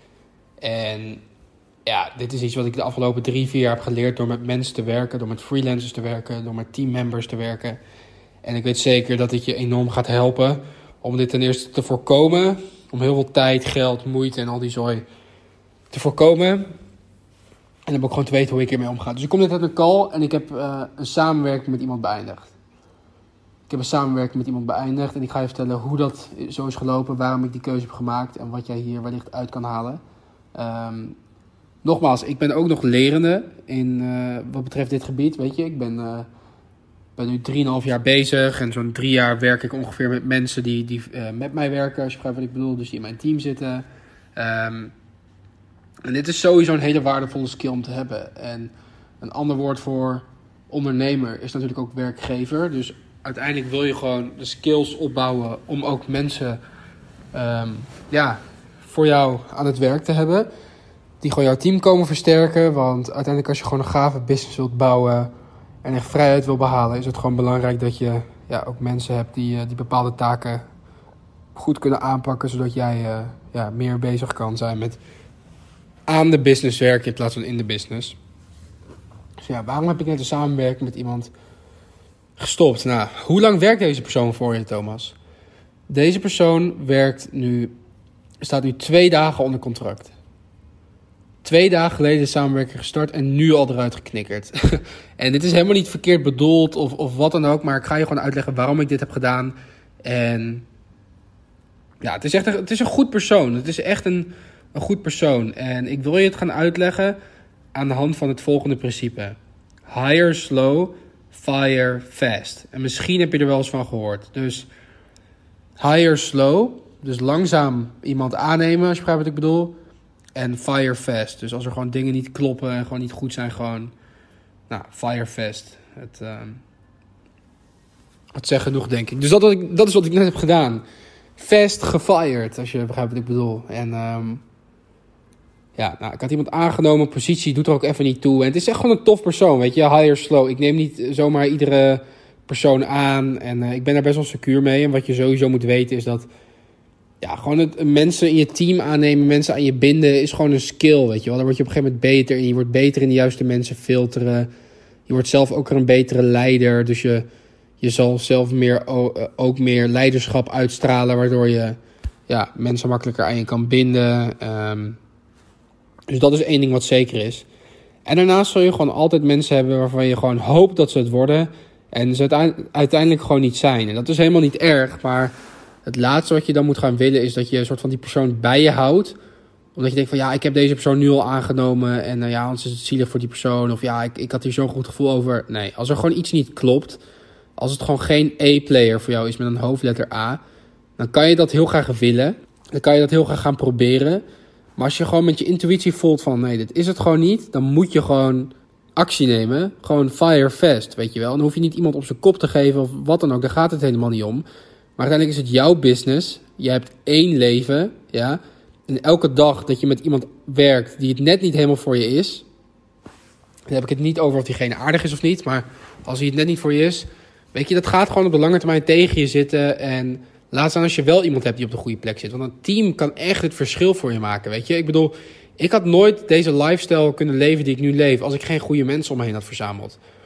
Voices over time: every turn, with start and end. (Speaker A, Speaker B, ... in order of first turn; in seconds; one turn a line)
Speaker A: 0.6-1.2
Speaker A: 1.9-7.8
Speaker A: 8.4-15.0
Speaker A: 15.9-16.7
Speaker A: 17.9-22.5
Speaker A: 23.7-30.0
Speaker A: 30.5-31.2
Speaker A: 31.8-36.3
Speaker A: 37.1-44.9
Speaker A: 46.0-56.6
Speaker A: 57.3-60.5
Speaker A: 61.2-65.3
Speaker A: 65.8-70.6
Speaker A: 71.5-75.0
Speaker A: 76.1-78.2
Speaker A: 79.4-81.3
Speaker A: 82.4-85.2
Speaker A: 85.9-87.7
Speaker A: 88.4-90.1
Speaker A: 91.4-100.7
Speaker A: 102.0-107.2
Speaker A: 107.7-114.7
Speaker A: 115.8-119.8
Speaker A: 120.3-123.9
Speaker A: 124.7-126.6
Speaker A: 128.3-130.8
Speaker A: 131.3-134.4
Speaker A: 135.8-146.3
Speaker A: 147.2-154.5
Speaker A: 155.1-157.3
Speaker A: 157.8-165.0
Speaker A: 166.1-167.5
Speaker A: 168.1-175.3
Speaker A: 175.8-179.2
Speaker A: 179.7-187.0
Speaker A: 187.6-190.4
Speaker A: 191.0-194.2
Speaker A: 194.8-204.4
Speaker A: 205.0-212.4
Speaker A: 213.7-230.0